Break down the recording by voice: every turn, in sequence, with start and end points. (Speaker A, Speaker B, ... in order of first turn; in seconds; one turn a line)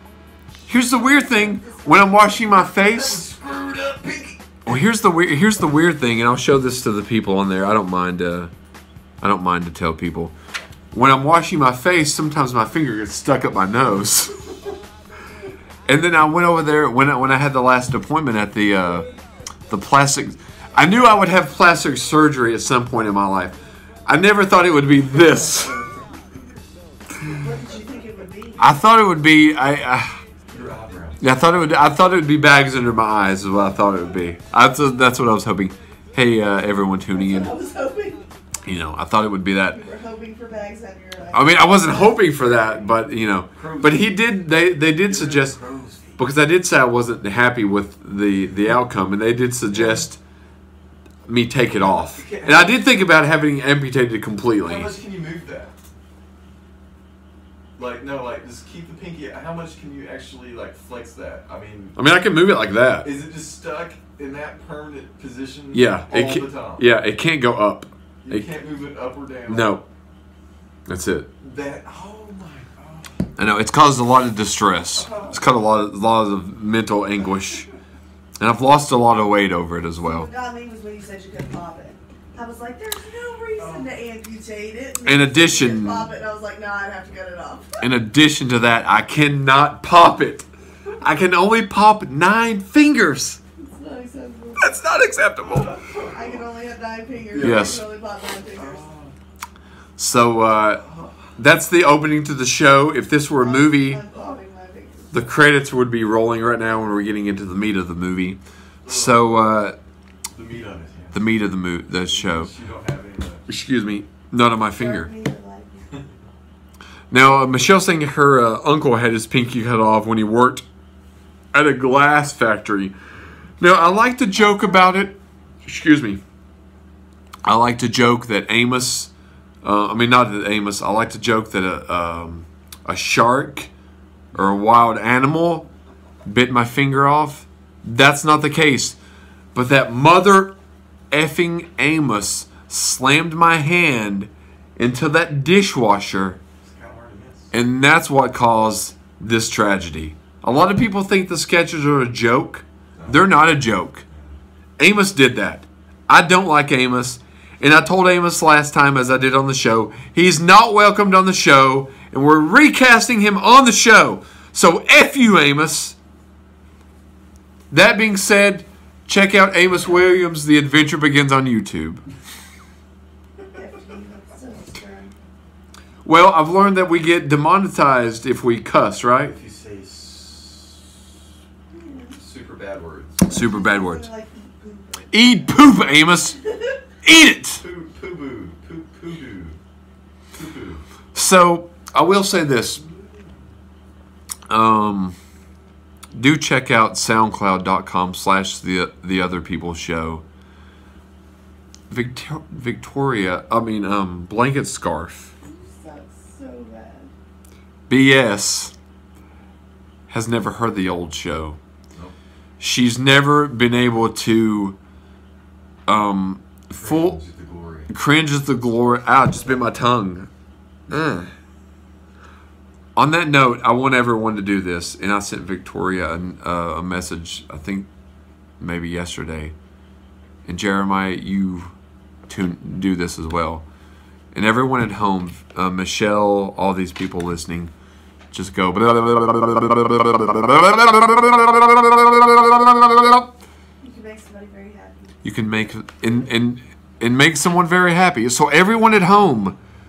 Speaker A: 0.7-3.2
Speaker B: 0.9-2.5
Speaker C: 2.7-4.8
Speaker A: 4.7-8.5
Speaker A: 9.2-10.3
Speaker A: 10.9-14.5
Speaker A: 15.9-19.1
Speaker A: 19.7-25.8
Speaker B: 27.4-28.8
Speaker A: 28.6-30.2
Speaker C: 30.5-31.2
Speaker A: 31.2-37.5
Speaker B: 37.1-38.2
Speaker A: 38.7-39.8
Speaker B: 39.7-42.7
Speaker A: 41.3-45.6
Speaker C: 43.5-44.2
Speaker C: 45.0-46.2
Speaker A: 46.2-50.2
Speaker C: 49.7-50.1
Speaker A: 51.3-54.9
Speaker C: 51.6-52.9
Speaker C: 54.6-55.7
Speaker C: 57.8-62.0
Speaker A: 62.0-63.1
Speaker C: 63.0-66.8
Speaker A: 65.7-68.5
Speaker C: 68.2-69.8
Speaker A: 69.5-69.8
Speaker A: 70.9-71.3
Speaker C: 71.4-73.3
Speaker A: 73.4-77.7
Speaker C: 74.9-75.6
Speaker A: 78.4-80.3
Speaker B: 80.0-87.9
Speaker C: 83.6-83.9
Speaker A: 85.0-86.1
Speaker A: 87.8-90.5
Speaker A: 91.0-93.4
Speaker B: 93.6-94.8
Speaker A: 94.6-95.8
Speaker C: 95.4-96.1
Speaker B: 96.1-98.8
Speaker C: 97.3-97.8
Speaker A: 97.4-97.8
Speaker C: 98.5-99.1
Speaker A: 100.0-100.8
Speaker C: 100.8-101.1
Speaker A: 101.4-104.0
Speaker B: 103.4-105.3
Speaker A: 105.1-109.8
Speaker C: 108.8-109.4
Speaker C: 110.3-111.2
Speaker A: 111.1-112.5
Speaker C: 112.0-113.5
Speaker A: 113.5-115.1
Speaker B: 114.8-115.9
Speaker A: 117.1-120.7
Speaker A: 121.5-122.9
Speaker A: 123.6-126.2
Speaker B: 124.3-125.1
Speaker A: 127.4-129.1
Speaker A: 129.6-133.7
Speaker A: 134.3-135.7
Speaker A: 136.2-139.0
Speaker A: 139.5-140.6
Speaker A: 141.1-146.4
Speaker C: 146.6-147.5
Speaker A: 147.5-154.0
Speaker C: 153.0-154.3
Speaker A: 154.8-166.0
Speaker A: 167.7-172.0
Speaker B: 173.5-175.2
Speaker A: 176.0-179.3
Speaker C: 179.2-181.0
Speaker B: 181.7-182.2
Speaker C: 182.2-183.3
Speaker A: 183.3-184.1
Speaker B: 183.3-186.8
Speaker A: 185.1-186.4
Speaker A: 187.0-187.6
Speaker C: 187.6-189.6
Speaker C: 190.3-190.8
Speaker A: 191.2-192.8
Speaker C: 192.8-193.3
Speaker A: 194.5-195.2
Speaker A: 196.1-200.2
Speaker A: 201.9-205.3
Speaker B: 205.4-207.1
Speaker A: 207.9-208.7
Speaker A: 210.1-211.6
Speaker A: 212.6-214.8
Speaker A: 215.9-217.2
Speaker C: 216.7-217.9
Speaker A: 217.9-220.3
Speaker A: 220.9-221.3
Speaker A: 223.0-227.9
Speaker A: 228.6-229.5
Speaker A: 230.5-231.7
Speaker A: 232.3-233.7
Speaker A: 234.3-237.7
Speaker A: 238.3-243.3
Speaker B: 243.8-245.1
Speaker A: 245.2-249.6